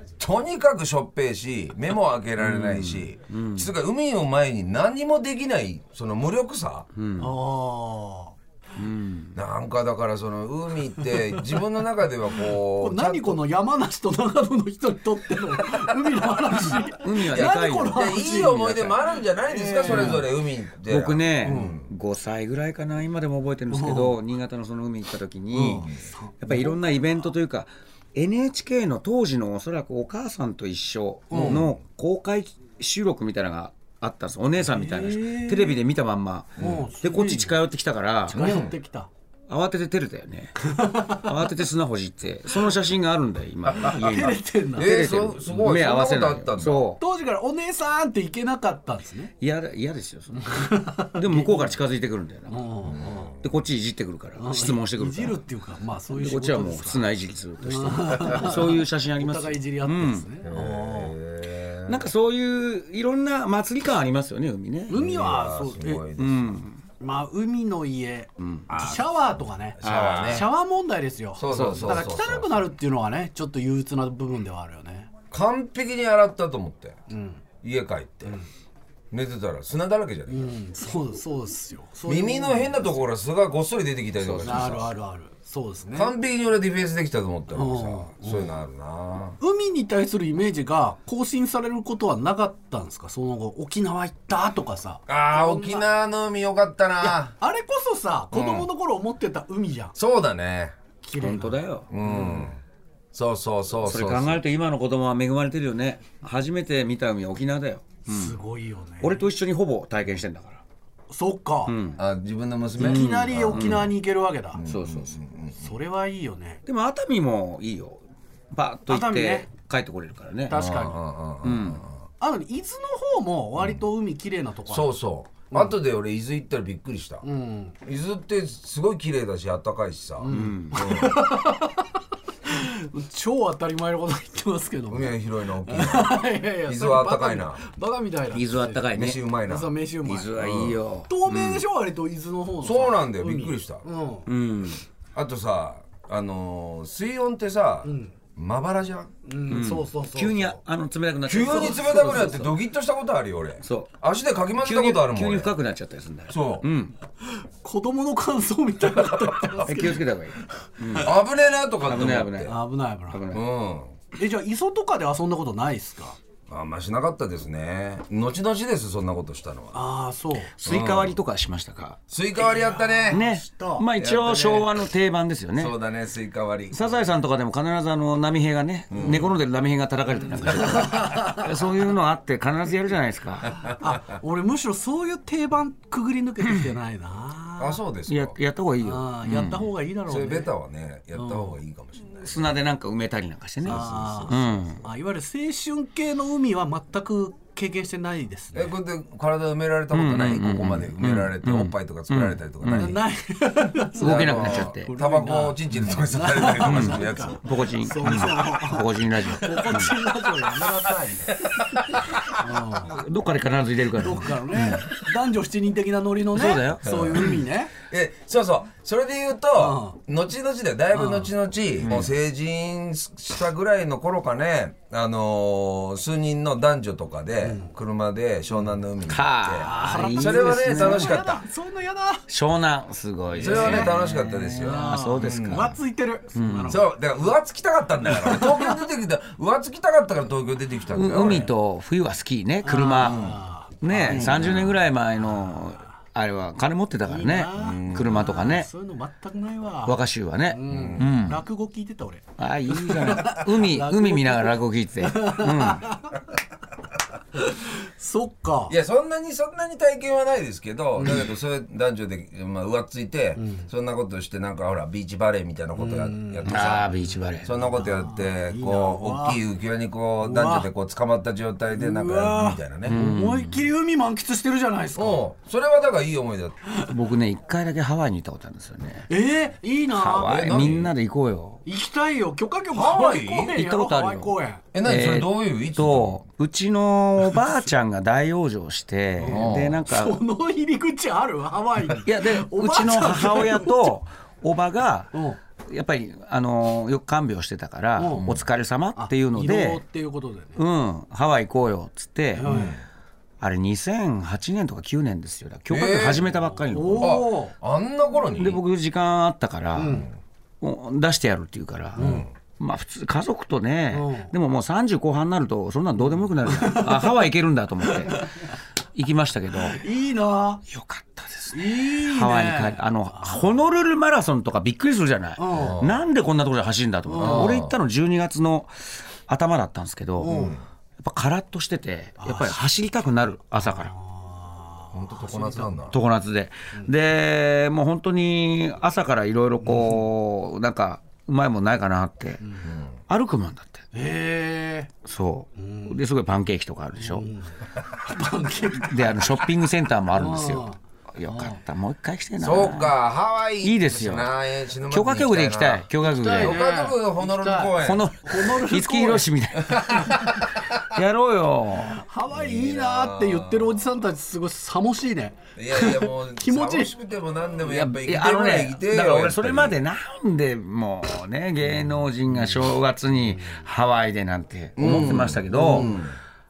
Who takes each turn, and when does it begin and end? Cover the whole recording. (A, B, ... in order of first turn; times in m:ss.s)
0:00.2-0:06.9 A
0:02.4-0:03.7 B
0:07.0-0:07.4 B
0:07.2-0:08.4 C
0:08.8-0:09.4 B
0:09.3-0:13.4 A
0:12.6-0:18.7 C
0:15.7-0:16.8 A
0:17.0-0:19.0 B
0:17.3-0:21.9 A
0:19.4-0:20.3 C
0:19.8-0:20.3 B
0:20.9-0:38.4 B
0:21.4-0:21.8 C
0:23.7-0:24.2 C
0:25.5-0:26.8 C
0:31.3-0:31.7 C
0:31.3-0:31.8 A
0:34.6-0:35.8 C
0:36.6-0:36.8 A
0:36.6-0:37.6 C
0:38.3-0:39.1 C
0:38.3-0:38.7 A
0:39.5-0:47.0 B
0:40.7-0:41.3 C
0:43.6-0:44.2 A
0:43.8-0:45.3 C
0:44.8-0:46.9 A
0:47.0-0:49.3 C
0:49.4-0:52.7 B
0:50.5-0:51.7 C
0:52.5-0:53.3 C
0:52.9-0:53.5 A
0:53.4-0:55.4 B
0:54.4-1:01.2 C
0:56.1-1:00.3 B
1:00.4-1:02.1 A
1:01.9-1:05.0 B
1:04.9-1:06.0 C
1:04.9-1:06.6 A
1:06.2-1:06.8 B
1:07.0-1:15.1 C
1:08.4-1:08.7 B
1:08.7-1:09.3 A
1:09.8-1:10.5 A
1:09.8-1:10.5 B
1:11.4-1:12.7 A
1:11.5-1:12.0 B
1:15.3-1:17.0 A
1:17.1-1:17.4 C
1:17.6-1:18.4 A
1:19.1-1:20.6 A
1:20.3-1:23.0 C
1:22.0-1:24.9 A
1:24.2-1:24.8 B
1:24.4-1:26.1 C
1:25.9-1:29.4 A
1:27.5-1:28.6 C
1:29.4-1:35.9 C
1:35.1-1:37.3 A
1:37.0-1:40.0 C
1:38.3-1:38.7 A
1:40.0-1:40.8 A
1:41.0-1:42.5 C
1:41.2-1:41.9 B
1:41.9-1:42.6 A
1:43.1-1:44.4 A
1:43.8-1:48.4 B
1:48.1-1:49.2 C
1:49.0-1:50.6 B
1:51.1-1:51.8 C
1:51.7-1:52.0 B
1:52.0-1:53.9 A
1:52.8-1:54.6 C
1:52.8-1:53.9 B
1:54.5-1:55.7 A
1:54.6-1:55.2 B
1:55.6-1:56.6 C
1:56.6-2:00.6 B
1:58.9-1:59.5 C
2:00.5-2:01.0 C
2:00.5-2:02.0 A
2:01.4-2:01.9 B
2:02.2-2:04.9 C
2:04.7-2:07.3 A
2:07.2-2:07.8 C
2:07.8-2:11.3 A
2:10.2-2:11.9 C
2:10.3-2:10.8 B
2:12.5-2:18.9 C
2:14.9-2:17.6 A
2:18.3-2:19.2 B
2:18.9-2:20.8 A
2:19.5-2:20.4 C
2:20.1-2:21.6 B
2:21.1-2:24.3 C
2:22.6-2:23.8 A
2:24.3-2:24.8 B
2:25.2-2:29.1 A
2:27.8-2:28.2 C
2:29.2-2:30.6 C
2:29.5-2:32.6 B
2:31.3-2:35.6 A
2:31.5-2:32.4 C
2:33.6-2:33.9 B
2:34.6-2:36.9 B
2:36.3-2:36.7 A
2:37.2-2:41.0 C
2:39.6-2:41.1 B
2:41.0-2:42.6 A
2:41.8-2:42.6 B
2:42.4-2:43.2 C
2:43.1-2:43.4 B
2:43.3-2:44.0 A
2:44.1-2:46.2 C
2:46.5-2:49.9 A
2:49.7-2:50.5 C
2:50.5-2:52.0 B
2:50.6-2:51.2 A
2:52.1-2:53.2 A
2:52.4-2:53.9 C
2:53.1-2:55.7 B
2:54.0-2:54.8 A
2:55.6-2:56.9 A
2:56.7-3:03.6 B
2:58.9-2:59.3 A
3:00.4-3:01.2 A
3:03.8-3:07.8 C
3:07.6-3:08.4 A
3:08.1-3:09.7 B
3:08.8-3:10.5 C
3:10.1-3:12.5 A
3:11.1-3:11.6 C
3:12.2-3:14.8 B
3:13.6-3:18.8 C
3:13.6-3:14.4 A
3:18.5-3:23.0 A
3:19.9-3:23.0 B
3:22.7-3:31.8 C
3:24.0-3:27.4 A
3:24.0-3:24.9 B
3:26.6-3:30.0 B
3:31.4-3:32.2 A
3:32.3-3:33.0 C
3:32.9-3:34.8 B
3:33.9-3:37.7 C
3:36.3-3:37.4 B
3:36.8-3:51.4 A
3:39.6-3:40.0 C
3:40.9-3:41.3 C
3:41.8-3:42.1 B
3:47.4-3:47.7 C
3:49.0-3:51.3 B
3:49.6-3:52.3 C
3:52.3-3:55.8 B
3:53.4-3:53.9 C
3:53.4-3:55.8 A
3:54.6-3:56.8 C
3:56.4-3:56.8 B
3:56.7-4:01.5 A
3:58.1-3:58.8 C
4:00.9-4:08.7 B
4:02.6-4:04.6 C
4:03.0-4:03.4 A
4:04.0-4:04.8 A
4:05.2-4:05.8 C
4:07.0-4:16.2 C
4:07.6-4:08.2 A
4:09.8-4:11.4 B
4:10.7-4:11.1 A
4:12.4-4:15.9 B
4:17.4-4:18.8 C
4:18.7-4:26.9 A
4:23.4-4:23.7 C
4:25.8-4:26.6 C
4:26.5-4:27.5 B
4:27.4-4:33.0 A
4:27.7-4:29.4 C
4:30.2-4:30.7 C
4:31.8-4:35.2 C
4:32.9-4:33.7 B
4:35.0-4:36.6 A
4:36.8-4:39.1 B
4:39.1-4:40.7 C
4:39.9-4:41.6 B
4:40.2-4:40.9 A
4:41.6-4:44.6 C
4:42.7-4:43.6 A
4:43.5-4:50.2 B
4:44.7-4:46.2 A
4:49.2-4:54.0 C
4:49.2-4:49.8 A
4:51.9-4:59.8 B
4:55.1-4:55.4 C
4:58.0-4:58.3 C
4:59.0-5:00.6 C
5:00.6-5:02.6 B
5:02.4-5:02.8 C
5:02.4-5:02.8 A
5:03.4-5:07.2 B
5:05.7-5:06.3 A
5:06.7-5:07.6 C
5:07.0-5:08.6 A
5:08.4-5:10.1 B
5:09.8-5:10.1 C
5:10.6-5:19.8 B
5:12.0-5:12.3 C
5:12.0-5:12.3 A
5:13.9-5:14.3 C
5:16.5-5:17.2 C
5:17.8-5:18.3 C
5:19.6-5:20.6 C
5:20.7-5:33.9 B
5:21.5-5:23.5 C
5:25.4-5:25.8 C
5:25.5-5:26.0 A
5:27.1-5:27.6 C
5:27.2-5:27.8 A
5:30.2-5:30.6 C
5:30.3-5:30.6 A
5:32.2-5:32.6 C
5:33.6-5:35.9 C
5:34.9-5:36.0 A
5:35.9-5:43.8 B
5:42.6-5:43.0 A
5:43.9-5:44.9 C
5:45.0-5:47.3 B
5:45.6-5:46.0 C
5:47.0-5:49.5 C
5:48.7-5:53.0 B
5:50.2-5:51.6 C
5:52.4-5:58.1 A
5:53.6-5:54.3 B
5:54.9-5:56.6 B
5:56.0-6:00.3 C
5:57.8-6:02.0 B
6:00.1-6:00.4 A
6:01.8-6:07.0 C
6:02.3-6:04.0 A
6:05.6-6:09.8 A
6:07.6-6:16.0 B
6:13.1-6:13.6 C
6:14.8-6:16.2 A
6:14.8-6:16.0 C